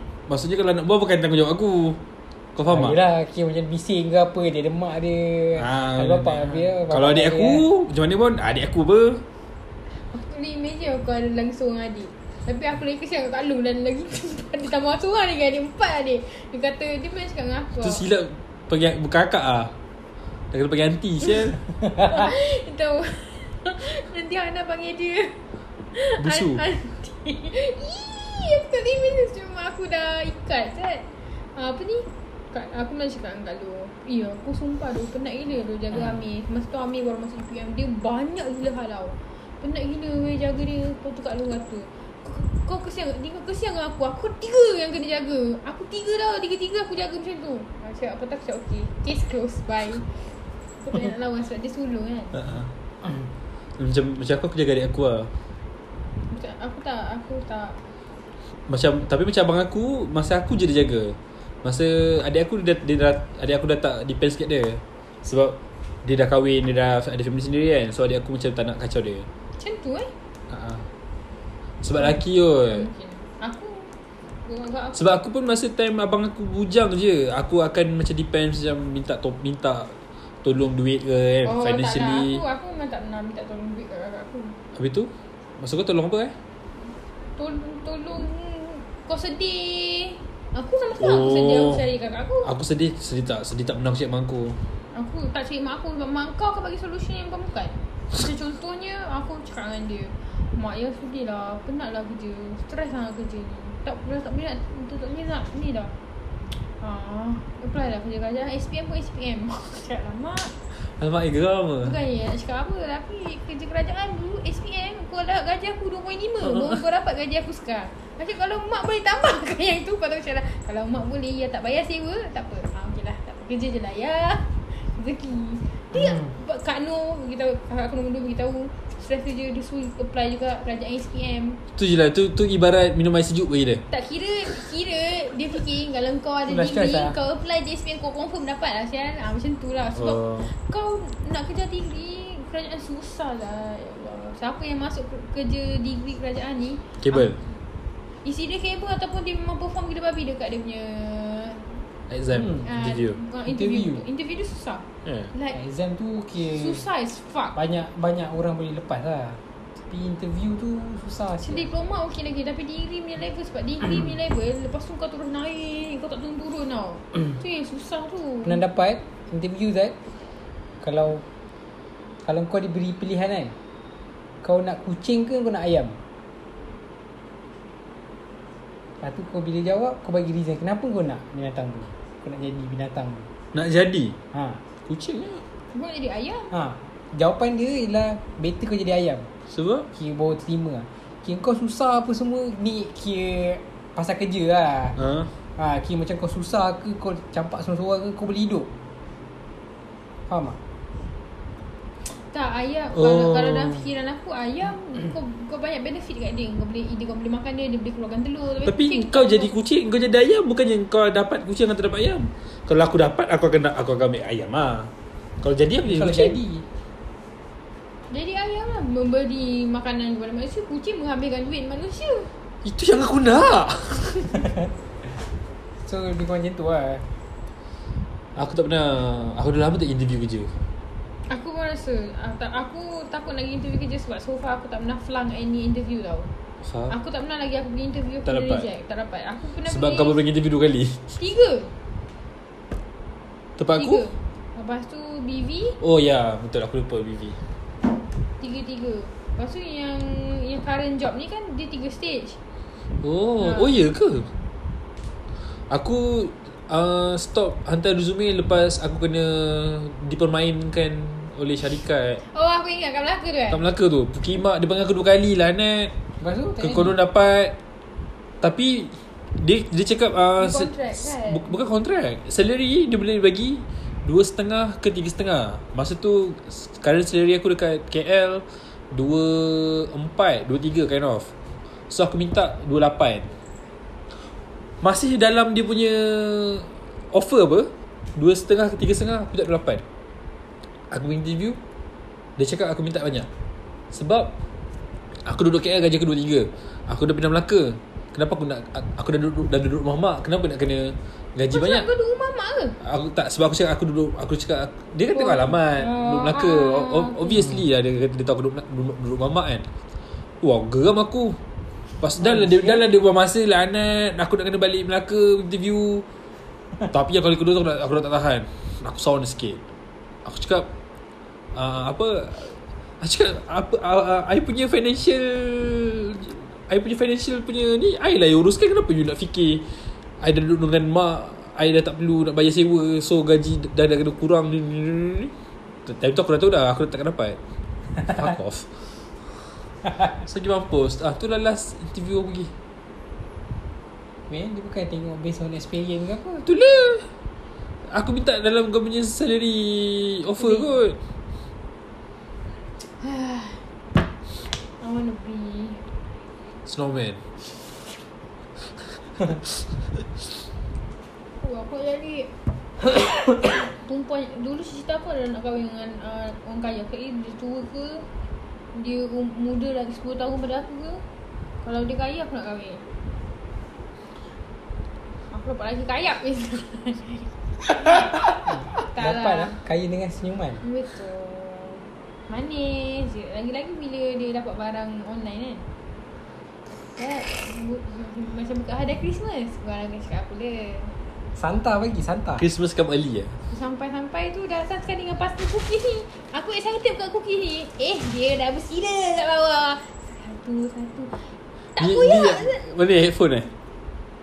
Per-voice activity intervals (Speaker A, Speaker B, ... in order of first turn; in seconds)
Speaker A: 0.3-2.0, 2.6-3.0, 5.6-9.2, 17.8-19.7, 20.5-21.6, 26.2-26.6, 53.8-55.3, 58.7-69.3, 70.5-70.9, 71.8-72.9, 75.0-82.4, 84.7-86.3, 91.0-91.8, 92.4-94.6, 110.8-112.0, 116.5-116.8, 131.8-133.8, 140.0-140.5, 147.0-147.4, 152.1-153.2, 155.1-155.3, 183.5-184.2, 184.9-185.4, 189.5-189.9, 195.0-195.3, 202.9-203.8, 208.7-216.4, 222.6-224.4, 228.4-230.5, 236.7-236.9, 238.3-238.7, 239.7-241.0, 243.6-244.0, 245.8-247.4, 253.0-254.3, 255.7-262.2, 263.5-265.9, 266.6-267.6, 268.4-281.3, 281.9-283.3, 284.8-289.8, 290.9-291.6, 292.4-293.3, 293.9-294.3, 295.2-301.9, 302.8-309.6, 310.4-311.4, 312.0-316.1, 316.9-319.6, 320.2-320.7, 321.6-329.7, 330.2-335.3, 335.9-337.4, 338.0-338.7, 340.1-342.5, 346.4-347.1, 347.9-351.0, 356.7-357.2, 392.4-393.4, 401.8-403.5
Speaker B: 2.7-7.7, 136.5-137.2, 152.4-152.6, 153.5-154.0, 155.5-156.8, 157.5-161.7, 168.4-169.9, 170.8-171.2, 172.2-173.6, 174.4-176.0, 179.0-183.3, 184.3-184.6, 186.5-189.3, 189.9-195.0, 195.6-198.7, 200.3-200.6, 215.8-216.7, 225.9-227.1, 266.2-267.0, 312.2-312.8, 344.3-346.5, 379.0-380.6, 391.4-392.4
Speaker C: 9.9-18.0, 22.0-25.4, 25.9-50.2, 50.8-52.5, 56.3-57.8, 69.6-70.1, 72.0-73.9, 74.5-75.2, 81.5-84.6, 87.4-92.5, 94.9-106.0, 106.8-110.5, 111.8-131.6, 133.9-147.3, 148.2-151.8, 152.6-155.6, 156.5-157.6, 161.4-168.6, 185.7-186.5, 202.2-209.5, 218.1-222.3, 231.3-236.3, 236.9-240.2, 241.2-241.7, 243.8-245.8, 248.4-252.4, 253.4-253.8, 262.3-263.6, 270.4-271.5, 301.5-302.8, 305.1-307.4, 353.0-353.7, 354.8-355.8, 361.4-362.3, 363.3-368.1, 368.7-371.0, 371.6-372.8, 375.3-379.6, 380.6-385.7, 387.0-390.9, 393.5-402.6